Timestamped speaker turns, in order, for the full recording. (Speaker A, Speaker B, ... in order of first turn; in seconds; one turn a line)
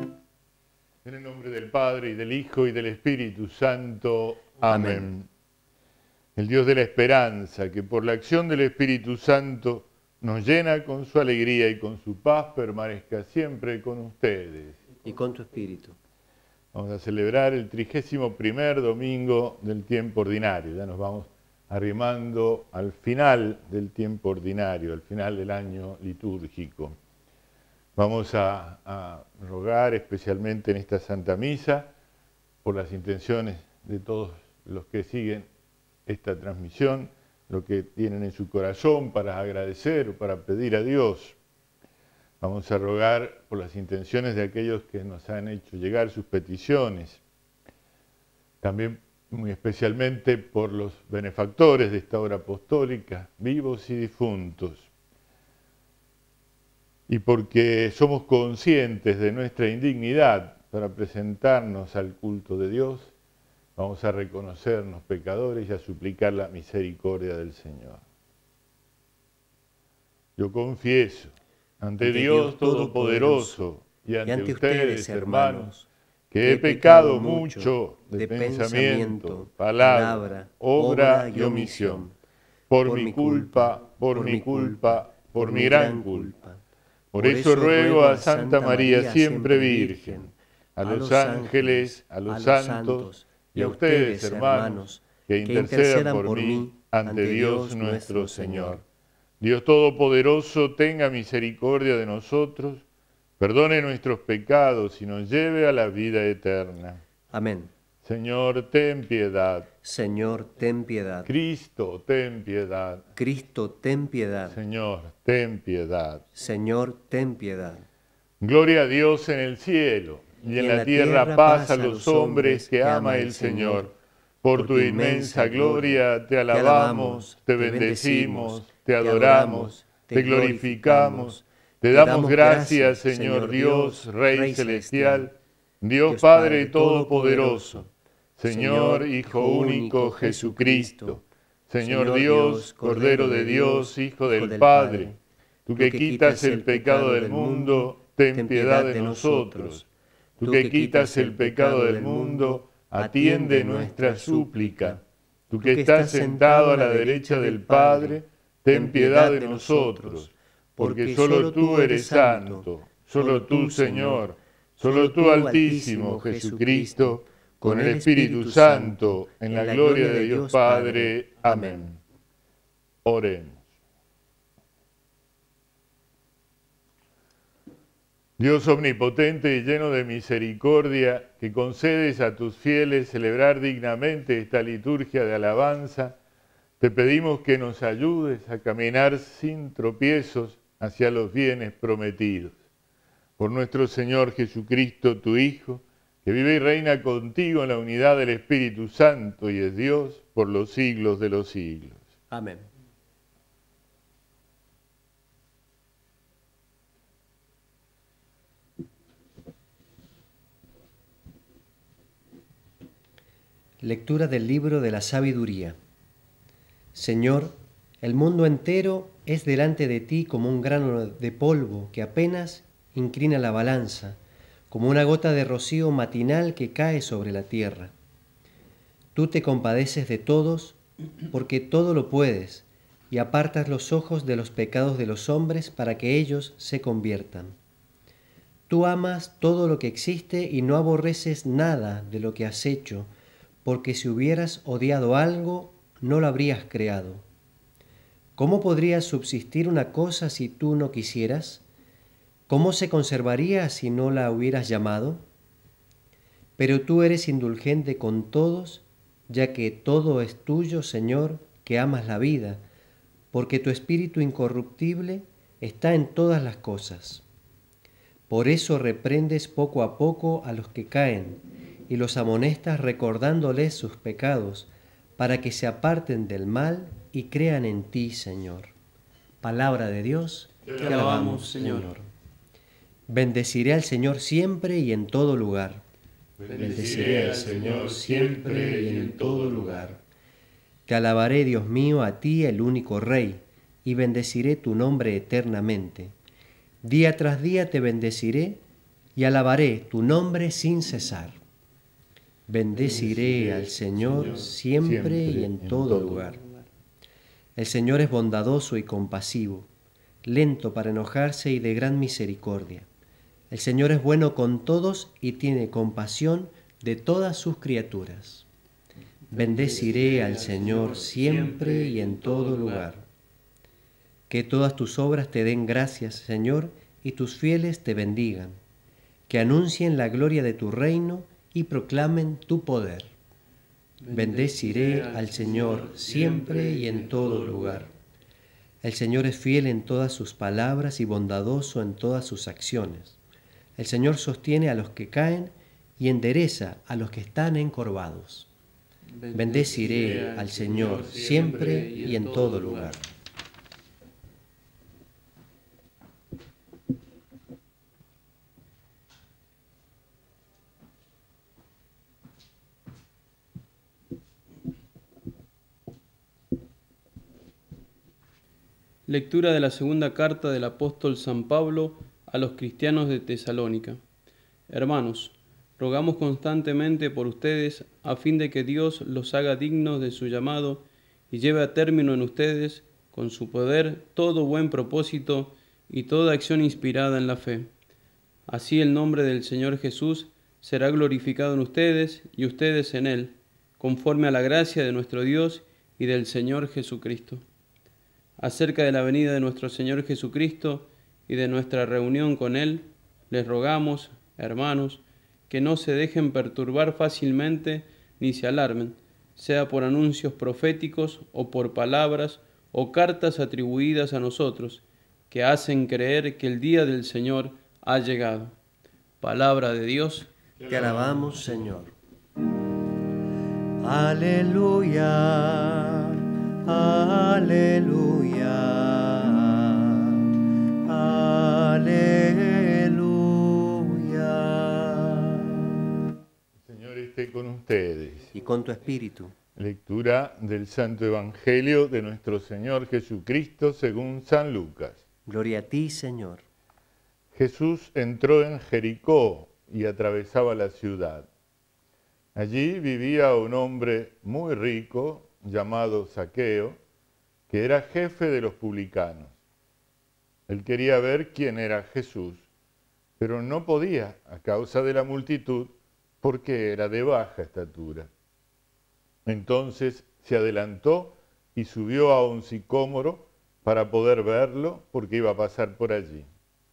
Speaker A: 1.0-5.3
Speaker B: 4.6-5.1
Speaker A: 6.3-14.8
Speaker B: 15.0-15.9
Speaker A: 16.7-27.0
Speaker A: 27.9-31.9
Speaker A: 32.6-35.5
Speaker A: 36.0-41.4
Speaker A: 42.4-47.2
Speaker A: 48.6-54.9
Speaker A: 57.1-63.1
Speaker A: 63.8-68.0
Speaker A: 70.4-75.7
Speaker B: 72.0-73.6
Speaker B: 74.2-75.9
Speaker A: 76.3-82.1
Speaker B: 76.4-82.1
Speaker A: 82.7-86.3
Speaker B: 82.8-86.6
Speaker B: 87.1-98.8
Speaker A: 87.1-98.8
Speaker A: 99.4-102.8
Speaker A: 103.4-107.0
Speaker B: 107.3-107.7
Speaker A: 108.0-109.7
Speaker B: 109.8-111.3
Speaker A: 111.2-113.0
Speaker B: 113.2-114.6
Speaker A: 114.5-116.2
Speaker B: 116.3-117.9
Speaker A: 118.4-123.9
Speaker B: 120.5-123.9
Speaker A: 124.4-137.8
Speaker B: 124.5-135.3
Speaker B: 136.1-137.9
Speaker A: 138.4-145.1
Speaker B: 138.4-141.2
Speaker B: 141.8-145.2
Speaker A: 145.7-149.8
Speaker B: 145.7-149.8
Speaker A: 150.4-172.0
Speaker B: 150.4-155.0
Speaker B: 155.6-171.9
Speaker A: 173.0-173.6
Speaker A: 178.4-186.2
Speaker A: 186.8-192.6
Speaker A: 193.4-202.0
Speaker B: 202.3-202.7
Speaker B: 213.8-215.8
Speaker B: 216.9-224.2
Speaker B: 224.7-227.9
Speaker B: 229.1-230.8
Speaker B: 231.3-237.6
Speaker B: 238.7-243.1
Speaker B: 243.6-247.2
Speaker B: 248.4-251.6
Speaker B: 252.5-255.2
Speaker B: 256.6-262.6
Speaker B: 263.3-267.2
Speaker B: 268.3-278.7
Speaker B: 279.4-282.1
Speaker A: 280.6-281.1
Speaker C: 280.7-281.9
Speaker B: 283.1-285.8
Speaker A: 286.4-289.8
Speaker C: 286.5-289.1
Speaker B: 286.5-290.0
Speaker B: 290.9-296.1
Speaker B: 296.8-298.6
Speaker B: 299.1-301.4
Speaker B: 302.5-306.4
Speaker C: 302.8-304.5
Speaker A: 302.9-306.2
Speaker B: 307.6-309.7
Speaker B: 310.2-312.9
Speaker B: 313.5-318.5
Speaker B: 319.3-323.1
Speaker C: 319.3-322.9
Speaker B: 324.3-328.6
Speaker B: 329.3-333.1
Speaker C: 334.0-337.8
Speaker B: 334.1-337.9
Speaker B: 338.8-343.2
Speaker B: 343.8-348.5
Speaker C: 349.1-353.0
Speaker B: 349.3-353.0
Speaker A: 349.8-352.5
Speaker C: 369.1-374.0
Speaker C: 374.7-387.7
Speaker C: 388.5-397.4
Speaker C: 398.4-418.6
Speaker C: 419.2-420.3
Speaker A: 420.6-421.6
Speaker B: 420.7-421.9
Speaker B: 423.8-430.3
Speaker B: 430.8-435.7
Speaker A: 436.6-438.3
Speaker B: 438.3-439.3
Speaker A: 439.6-445.0
Speaker B: 445.2-446.4
Speaker A: 447.3-451.3
Speaker A: 452.3-456.8
Speaker A: 457.5-459.4
Speaker A: 460.5-462.5
Speaker A: 463.2-468.1
Speaker A: 469.2-476.3